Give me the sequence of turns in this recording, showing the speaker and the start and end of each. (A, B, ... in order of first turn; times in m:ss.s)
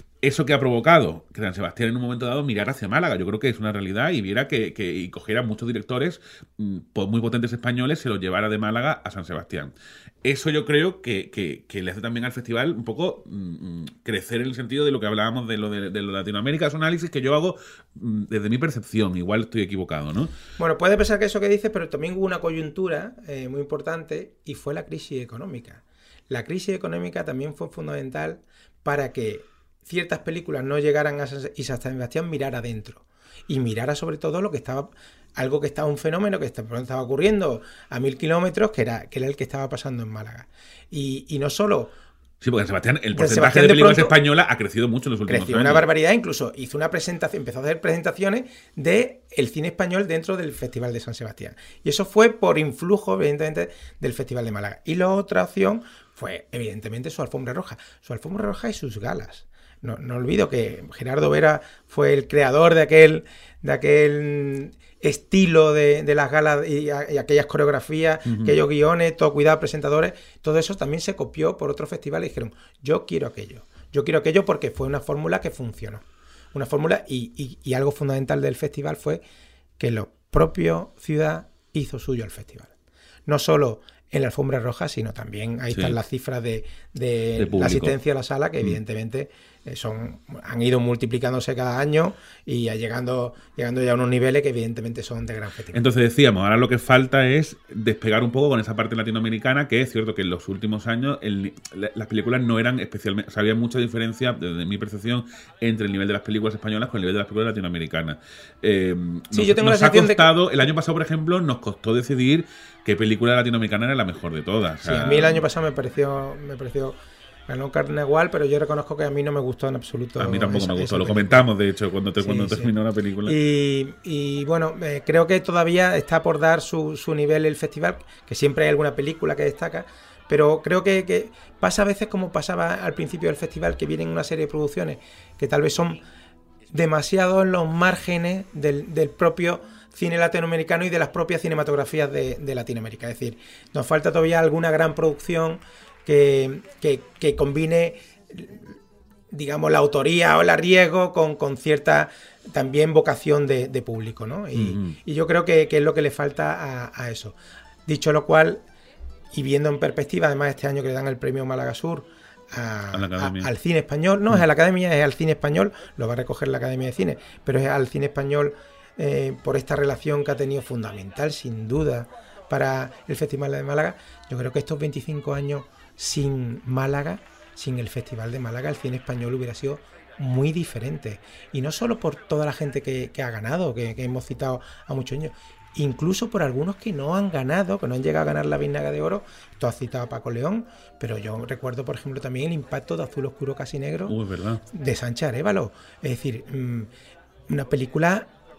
0:00.2-0:20.3 A
0:20.6-0:41.9 B
0:42.4-0:45.9 A
0:43.2-0:44.2 B
0:45.3-1:16.0 B
1:08.3-1:08.6 A
1:16.5-1:19.2 B
1:19.8-1:22.7 B
1:23.3-1:35.8 B
1:25.7-1:26.0 A
1:27.4-1:28.0 A
1:35.7-1:55.4 A
1:49.3-1:50.3 B
1:54.8-1:57.0 B
1:57.5-2:01.5 B
2:00.2-2:03.4 A
2:02.2-2:02.7 B
2:03.2-2:16.0 B
2:16.7-2:28.6 B
2:29.3-2:37.4 B
2:34.6-2:35.0 A
2:37.9-2:38.6 B
2:39.3-3:14.2 B
2:42.9-2:43.5 A
3:14.1-3:14.6 A
3:14.7-3:16.9 B
3:17.5-3:18.3 B